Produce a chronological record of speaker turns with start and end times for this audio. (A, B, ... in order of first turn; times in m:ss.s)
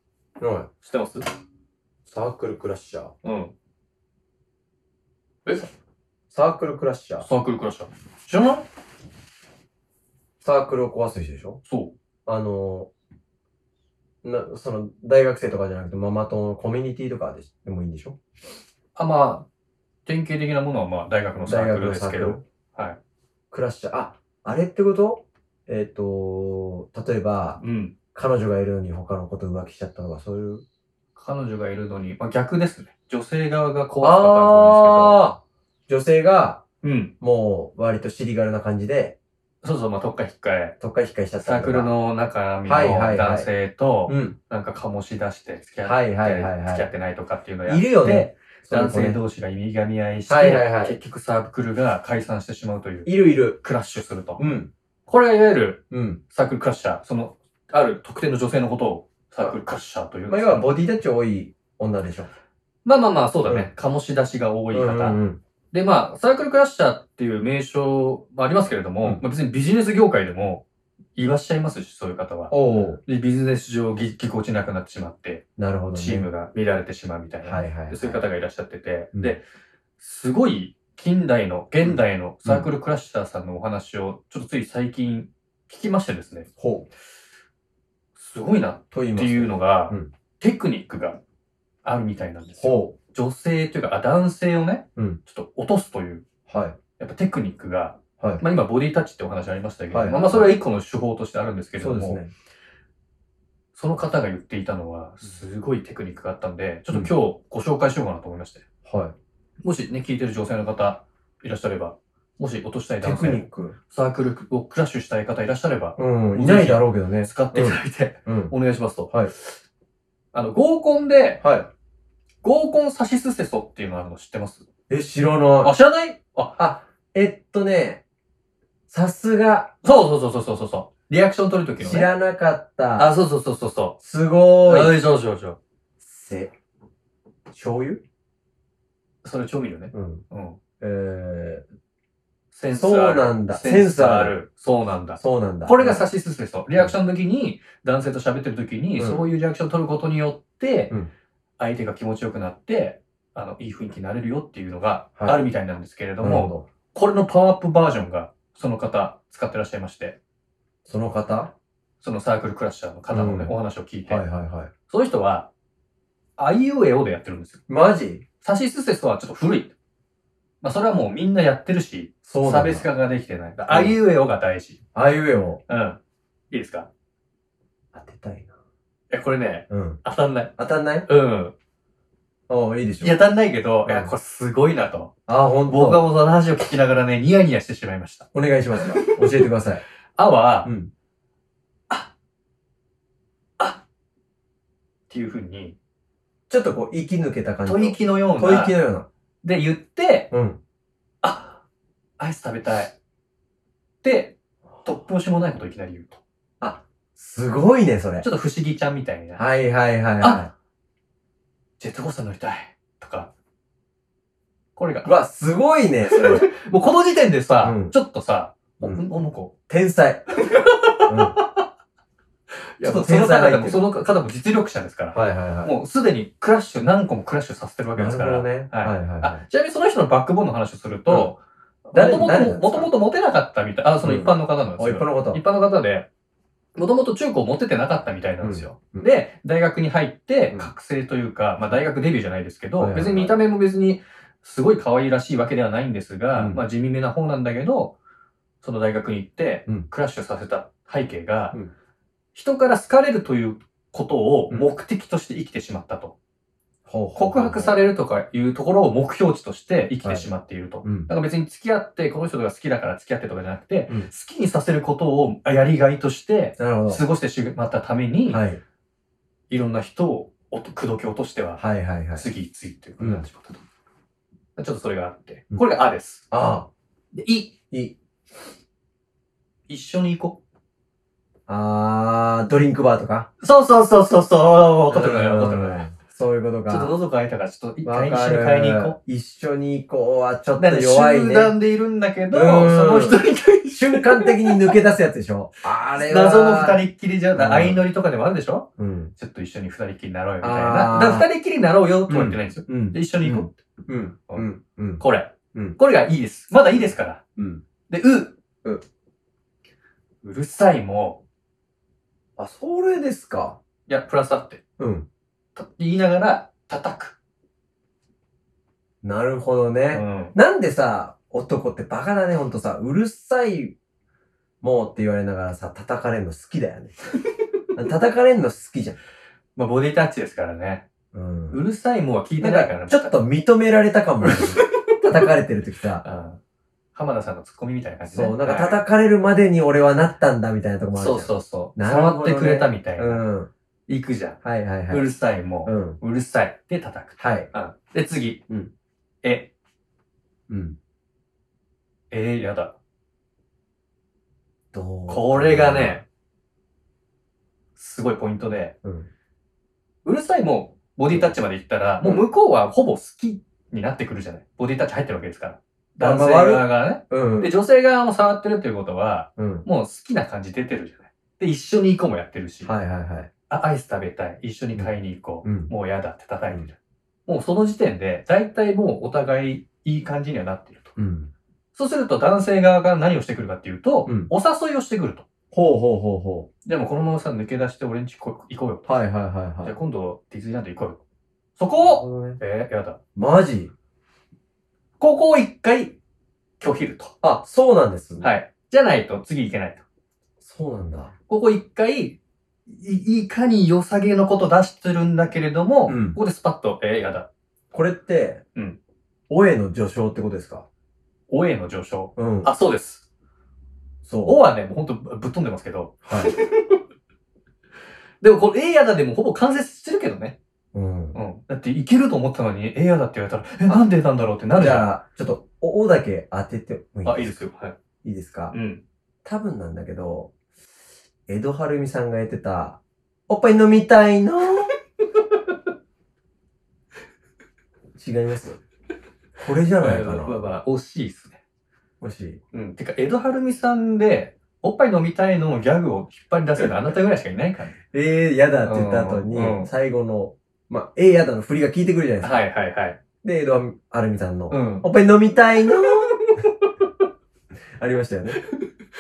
0:00.4-0:00.7 A
0:00.8-0:01.2 B
0:02.1-0:03.1 A
0:03.2-0:03.5 B
0:06.3-0:07.3 A
0:07.2-0:08.7 B
0:10.4-0:11.6 A
0:11.6-0:12.0 B
0:12.3-0:12.9 A
0:14.2-0:18.2 A
0:19.0-0:19.5 B
0:20.1-0:23.0 B
0:21.5-0:22.4 A
0:23.5-0:27.6 A
0:27.6-0:28.0 B
0:28.1-0:30.6 A
0:31.2-0:35.2 B
0:34.0-0:36.6 A
0:36.8-0:37.1 B
0:37.2-0:39.2 A
0:39.6-0:40.8 B
0:40.8-0:41.9 A
0:41.4-0:54.5 B
0:42.7-0:43.5 A
0:44.1-0:44.4 A
0:45.8-0:46.9 A
0:47.7-0:49.2 A
0:50.3-0:51.0 A
0:53.1-0:53.6 A
0:54.4-0:54.7 A
0:55.1-1:00.8 B
0:55.9-0:56.2 A
1:00.3-1:02.3 A
1:02.8-1:10.6 B
1:04.7-1:05.4 A
1:11.2-1:12.5 B
1:12.5-1:13.0 A
1:13.0-1:19.4 B
1:15.6-1:16.3 A
1:17.4-1:18.2 A
1:20.0-1:26.5 B
1:21.8-1:22.7 A
1:26.6-1:26.9 A
1:28.2-1:31.2 B
1:28.9-1:30.1 A
1:31.8-1:36.2 B
1:32.6-1:33.0 A
1:36.5-1:36.8 A
1:37.0-1:42.2 B
1:39.9-1:40.5 A
1:41.8-1:42.3 A
1:43.8-1:48.6 B
1:48.9-1:49.2 A
1:49.6-1:59.6 B
1:53.0-1:53.8 A
1:56.0-1:58.5 A
2:00.3-2:01.4 B
2:01.4-2:01.7 A
2:02.4-2:04.7 B
2:04.9-2:05.7 A
2:05.6-2:06.6 B
2:06.6-2:08.0 A
2:08.9-2:09.7 A
2:09.8-2:12.1 B
2:11.8-2:13.1 A
2:13.0-2:14.0 B
2:14.0-2:15.0 A
2:14.7-2:15.6 B
2:16.0-2:16.5 A
2:17.5-2:18.0 A
2:19.2-2:20.6 B
2:19.9-2:20.2 A
2:20.8-2:21.6 A
2:22.5-2:31.0 B
2:22.7-2:24.4 A
2:25.2-2:26.1 A
2:29.0-2:29.2 A
2:31.6-2:40.2 B
2:35.2-2:35.4 A
2:36.2-2:36.7 A
2:40.8-2:41.5 A
2:42.0-2:44.2 B
2:43.1-2:43.5 A
2:44.1-2:44.7 A
2:44.9-2:45.5 B
2:46.4-2:47.6 B
2:47.7-2:48.2 A
2:48.4-2:49.7 B
2:50.6-2:54.8 B
2:52.3-2:52.9 A
2:53.7-2:54.0 A
2:55.0-2:55.6 A
2:55.7-2:56.0 B
2:56.5-2:56.9 B
2:57.9-2:58.5 A
2:59.1-3:00.5 B
2:59.7-3:00.0 A
3:00.6-3:01.1 A
3:01.1-3:01.5 B
3:02.5-3:03.2 A
3:03.0-3:05.1 B
3:03.9-3:04.1 A
3:05.3-3:06.0 A
3:05.7-3:09.5 B
3:08.3-3:09.8 A
3:10.2-3:10.7 B
3:10.6-3:10.9 A
3:15.1-3:15.8 B
3:16.5-3:19.1 A
3:17.7-3:18.8 B
3:19.4-3:20.3 B
3:20.3-3:20.6 A
3:21.2-3:21.6 B
3:22.2-3:22.9 B
3:24.0-3:26.2 B
3:26.6-3:28.2 A
3:28.2-3:29.4 B
3:29.4-3:30.5 A
3:30.2-3:30.5 B
3:31.8-3:33.3 B
3:34.8-3:35.2 B
3:35.0-3:36.5 A
3:36.1-3:39.5 B
3:37.6-3:37.9 A
3:39.7-3:40.3 A
3:40.4-3:41.6 B
3:41.1-3:41.4 A
3:42.8-3:56.1 B
3:42.8-3:43.8 A
3:45.1-3:45.7 A
3:48.0-3:49.4 A
3:51.9-3:52.9 A
3:54.0-3:55.4 A
3:56.8-4:08.0 B
3:58.4-3:59.1 A
4:02.8-4:03.4 A
4:08.6-4:11.6 B
4:12.3-4:16.2 B
4:16.9-4:17.7 A
4:17.2-4:28.4 B
4:20.8-4:21.1 A
4:26.6-4:27.0 A
4:28.3-4:28.6 A
4:29.5-4:31.6 B
4:31.6-4:32.3 A
4:32.2-4:33.6 B
4:33.0-4:33.2 A
4:34.6-4:36.2 B
4:36.3-4:36.7 A
4:37.1-4:37.6 B
4:39.7-4:40.4 B
4:41.5-4:43.3 A
4:43.4-4:45.8 B
4:44.9-4:46.9 A
4:46.7-4:49.0 B
4:47.8-4:51.5 A
4:50.6-4:54.7 B
4:52.3-4:53.2 A
4:53.7-4:56.8 A
4:55.9-5:03.5 B
4:57.4-4:57.8 A
4:58.8-4:59.1 A
5:00.4-5:01.3 A
5:02.1-5:05.0 A
5:05.0-5:07.2 B
5:07.4-5:07.6 A
5:07.9-5:08.4 B
5:10.2-5:11.2 B
5:12.4-5:13.6 A
5:13.9-5:14.6 B
5:14.8-5:15.1 A
5:15.6-5:17.2 B
5:19.0-5:23.8 A
5:19.9-5:20.4 B
5:24.6-5:26.9 A
5:27.8-5:29.0 A
5:29.6-5:30.8 B
5:31.1-5:31.6 A
5:31.5-5:33.1 B
5:32.4-5:36.0 A
5:34.2-5:35.3 B
5:36.0-5:36.4 B
5:37.0-5:38.8 B
5:38.1-5:43.5 A
5:41.0-5:43.2 B
5:43.9-5:44.4 B
5:44.4-5:45.0 A
5:44.9-5:48.4 B
5:45.7-5:46.0 A
5:47.2-5:47.5 A
5:49.2-5:49.5 B
5:50.5-5:50.8 A
5:52.1-5:52.8 B
5:54.7-5:56.0 A
5:55.1-5:56.0 B
5:57.8-5:58.8 B
5:58.8-5:59.1 A
6:00.0-6:12.7 B
6:06.0-6:07.5 A
6:09.4-6:09.7 A
6:12.6-6:13.3 A
6:13.5-6:21.0 B
6:15.4-6:15.7 A
6:21.0-6:21.3 A
6:21.7-6:25.2 B
6:25.5-6:26.5 A
6:26.6-6:29.0 B
6:28.9-6:29.8 A
6:29.6-6:31.0 B
6:31.6-6:33.0 B
6:31.8-6:32.4 A
6:33.2-6:33.7 A
6:35.0-6:36.0 B
6:36.6-6:37.1 B
6:37.2-6:38.3 A
6:38.2-6:39.8 B
6:40.4-6:41.1 A
6:41.3-6:47.3 B
6:45.9-6:46.2 A
6:47.7-6:48.4 A
6:49.3-6:50.7 A
6:51.3-6:53.0 B
6:52.2-6:52.5 A
6:54.0-6:54.4 A
6:54.2-6:56.8 B
6:56.1-6:56.3 A
6:58.2-7:00.4 B
7:00.7-7:01.2 A
7:01.1-7:04.9 B
7:04.6-7:07.4 A
7:07.0-7:07.8 B
7:08.0-7:08.5 A
7:08.5-7:08.8 B
7:09.2-7:10.3 A
7:11.3-7:14.7 A
7:18.0-7:18.6 A
7:19.4-7:20.5 A
7:19.8-7:21.4 B
7:22.0-7:22.4 A
7:22.5-7:27.8 B
7:27.9-7:32.4 A
7:28.6-7:29.7 B
7:32.2-7:33.0 B
7:33.2-7:36.2 A
7:34.5-7:34.9 B
7:35.9-7:36.7 B
7:37.8-7:38.4 A